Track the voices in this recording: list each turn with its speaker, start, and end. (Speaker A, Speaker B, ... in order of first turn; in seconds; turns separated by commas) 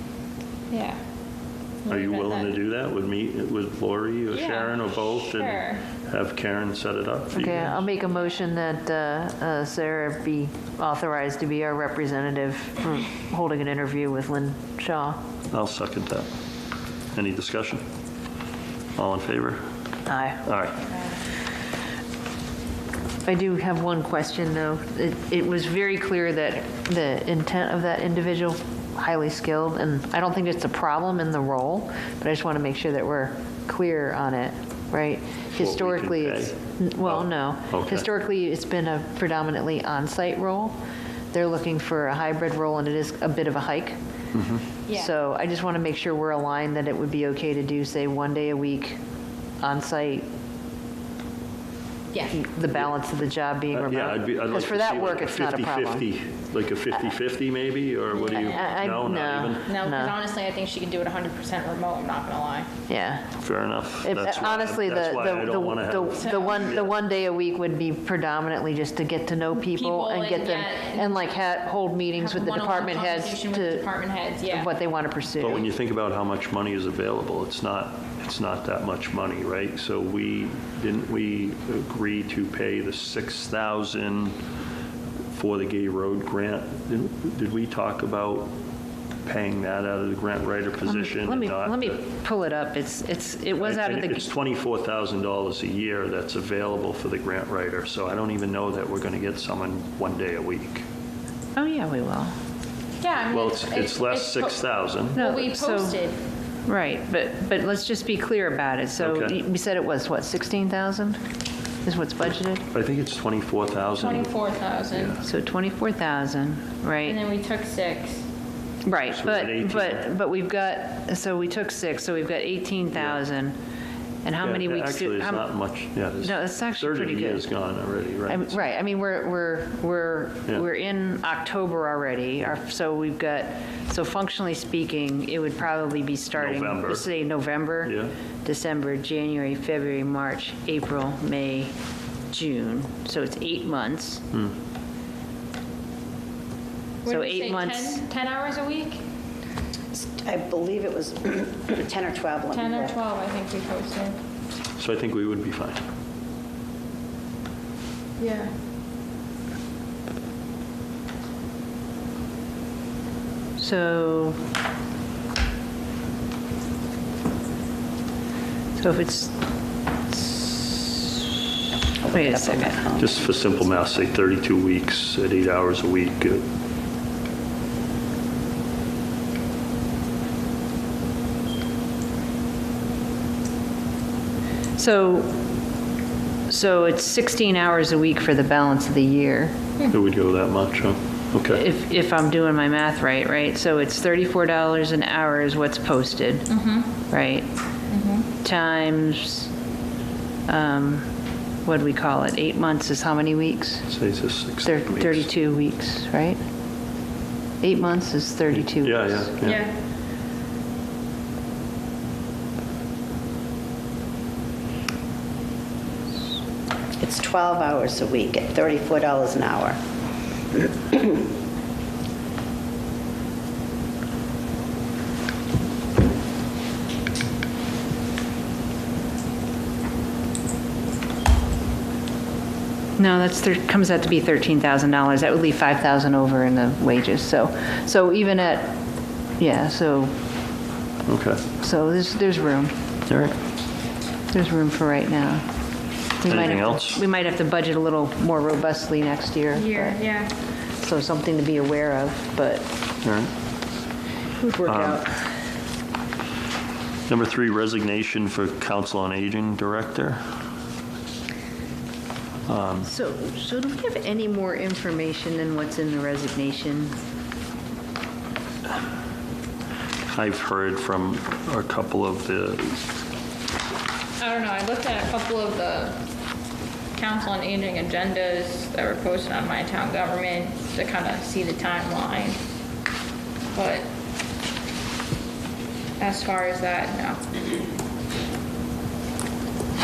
Speaker A: 0.7-1.0, Speaker A: 1.8-2.5, Speaker B: 1.9-7.8, Speaker A: 4.3-5.8, Speaker C: 7.3-15.2, Speaker A: 8.1-8.4, Speaker B: 15.5-16.3, Speaker B: 17.1-17.8, Speaker B: 19.0-19.6, Speaker C: 20.1-20.4, Speaker B: 20.4-20.8, Speaker C: 23.2-40.7, Speaker B: 35.5-38.0, Speaker C: 41.3-44.0, Speaker B: 44.3-44.6, Speaker A: 44.9-45.1, Speaker C: 44.9-49.0, Speaker C: 49.6-50.2, Speaker A: 52.1-52.4, Speaker C: 52.3-56.0, Speaker B: 53.7-59.7, Speaker A: 58.1-58.7, Speaker C: 58.4-60.1, Speaker A: 59.6-62.7, Speaker C: 62.9-63.4, Speaker B: 63.4-66.9, Speaker C: 64.0-73.8, Speaker A: 69.7-71.2, Speaker A: 72.2-74.7, Speaker C: 74.5-75.6, Speaker B: 75.4-84.3, Speaker B: 85.3-88.5, Speaker B: 89.2-92.0, Speaker C: 90.8-94.3, Speaker B: 93.6-100.8, Speaker C: 101.5-102.3, Speaker A: 103.0-104.6, Speaker B: 103.3-105.2, Speaker A: 105.1-106.2, Speaker C: 105.1-106.0, Speaker C: 106.7-111.2, Speaker B: 109.0-109.4, Speaker C: 111.8-112.7, Speaker B: 112.7-114.3, Speaker A: 114.0-115.2, Speaker B: 114.9-115.2, Speaker C: 115.2-117.2, Speaker A: 117.0-118.2, Speaker C: 118.8-123.5, Speaker B: 119.1-120.1, Speaker B: 122.9-123.2, Speaker C: 124.2-125.5, Speaker B: 124.4-128.6, Speaker C: 126.2-127.4, Speaker C: 128.3-141.7, Speaker B: 136.3-137.1, Speaker B: 137.8-138.1, Speaker C: 142.3-144.2, Speaker A: 147.0-149.0, Speaker C: 147.1-148.0, Speaker D: 149.9-153.0, Speaker A: 152.5-154.2, Speaker B: 154.8-155.8, Speaker A: 158.2-158.5, Speaker C: 163.6-164.4, Speaker C: 168.8-169.4, Speaker C: 170.1-171.1, Speaker D: 172.0-173.3, Speaker C: 172.1-172.8, Speaker B: 172.9-176.4, Speaker C: 184.8-185.4, Speaker C: 186.5-189.5, Speaker B: 189.9-191.6, Speaker C: 191.5-196.5, Speaker A: 196.5-196.9, Speaker C: 197.1-197.4, Speaker A: 197.9-198.3, Speaker C: 198.4-199.5, Speaker C: 200.5-201.1, Speaker C: 201.6-203.9, Speaker B: 203.9-205.3, Speaker C: 204.6-206.4, Speaker C: 207.6-209.3, Speaker B: 208.6-209.7, Speaker A: 209.4-209.7, Speaker D: 217.0-219.8, Speaker D: 220.6-221.2, Speaker C: 233.0-238.8, Speaker C: 239.4-240.1, Speaker B: 241.1-241.4, Speaker C: 241.6-242.7, Speaker B: 243.1-243.3, Speaker C: 244.3-245.5, Speaker C: 246.2-250.0, Speaker B: 246.2-247.0, Speaker A: 249.5-250.3, Speaker C: 250.8-252.7, Speaker B: 253.0-253.3, Speaker C: 254.4-255.3, Speaker B: 254.6-255.0, Speaker B: 257.1-260.2, Speaker B: 262.5-262.9, Speaker C: 262.8-266.9, Speaker B: 270.1-272.8, Speaker A: 274.2-276.0, Speaker A: 276.9-282.4, Speaker A: 283.5-283.9, Speaker A: 286.0-287.2